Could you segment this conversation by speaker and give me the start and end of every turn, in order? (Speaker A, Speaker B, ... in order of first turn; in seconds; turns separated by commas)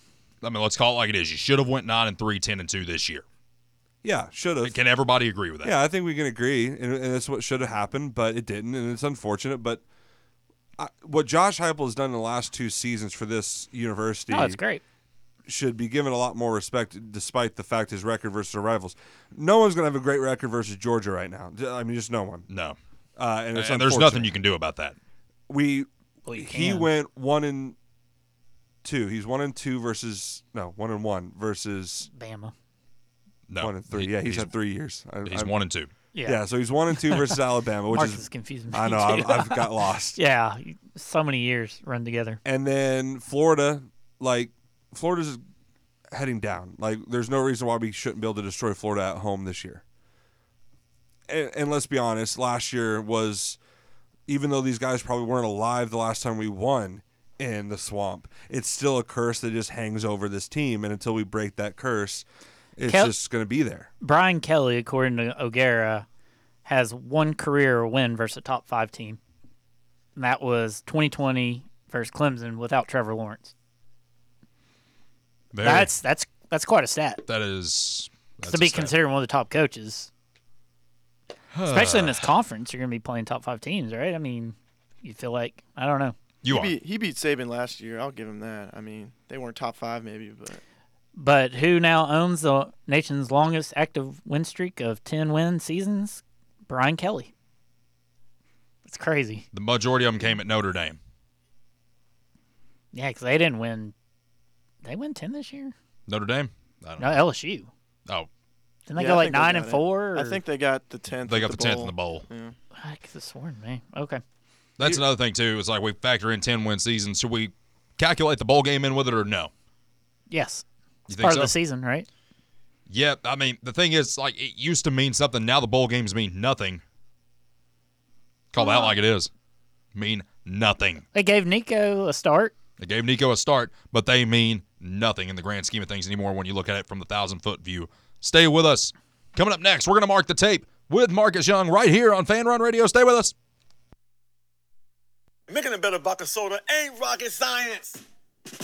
Speaker A: 0.4-3.2, Speaker B: 4.0-4.8, Speaker A: 4.6-5.7, Speaker B: 5.6-9.8, Speaker B: 10.8-14.6, Speaker C: 14.3-14.8, Speaker B: 15.4-22.5, Speaker A: 22.5-22.8, Speaker B: 23.2-24.4, Speaker A: 23.5-24.9, Speaker B: 25.5-27.8, Speaker C: 26.2-26.9, Speaker B: 28.8-32.1, Speaker C: 32.1-32.5, Speaker A: 33.5-34.5, Speaker B: 33.6-35.5, Speaker A: 35.2-35.9, Speaker C: 36.1-37.4, Speaker B: 36.2-40.2, Speaker C: 37.9-42.4, Speaker B: 42.4-45.4, Speaker B: 46.1-49.8, Speaker B: 51.3-53.6, Speaker B: 54.3-63.9, Speaker C: 62.9-63.1, Speaker C: 64.0-66.0, Speaker C: 66.7-69.2, Speaker C: 70.2-73.5, Speaker A: 75.5-75.9, Speaker C: 75.6-77.2, Speaker A: 77.2-78.9, Speaker C: 78.5-80.1, Speaker A: 81.5-82.3, Speaker C: 81.7-86.1, Speaker A: 86.4-86.7, Speaker D: 86.5-90.6, Speaker C: 91.2-97.3, Speaker C: 98.8-99.4, Speaker A: 99.5-101.0, Speaker C: 102.9-103.9, Speaker C: 104.8-105.7, Speaker A: 106.1-107.1, Speaker C: 107.0-107.7, Speaker C: 108.9-110.4, Speaker D: 109.0-112.5, Speaker A: 111.2-112.2, Speaker C: 112.8-114.2, Speaker A: 114.8-119.5, Speaker C: 120.3-120.6, Speaker A: 121.1-121.5, Speaker C: 121.2-122.1, Speaker A: 122.9-126.8, Speaker A: 128.5-129.3, Speaker C: 128.6-128.9, Speaker A: 129.9-131.0, Speaker C: 131.1-132.5, Speaker A: 132.8-143.3, Speaker E: 145.5-148.0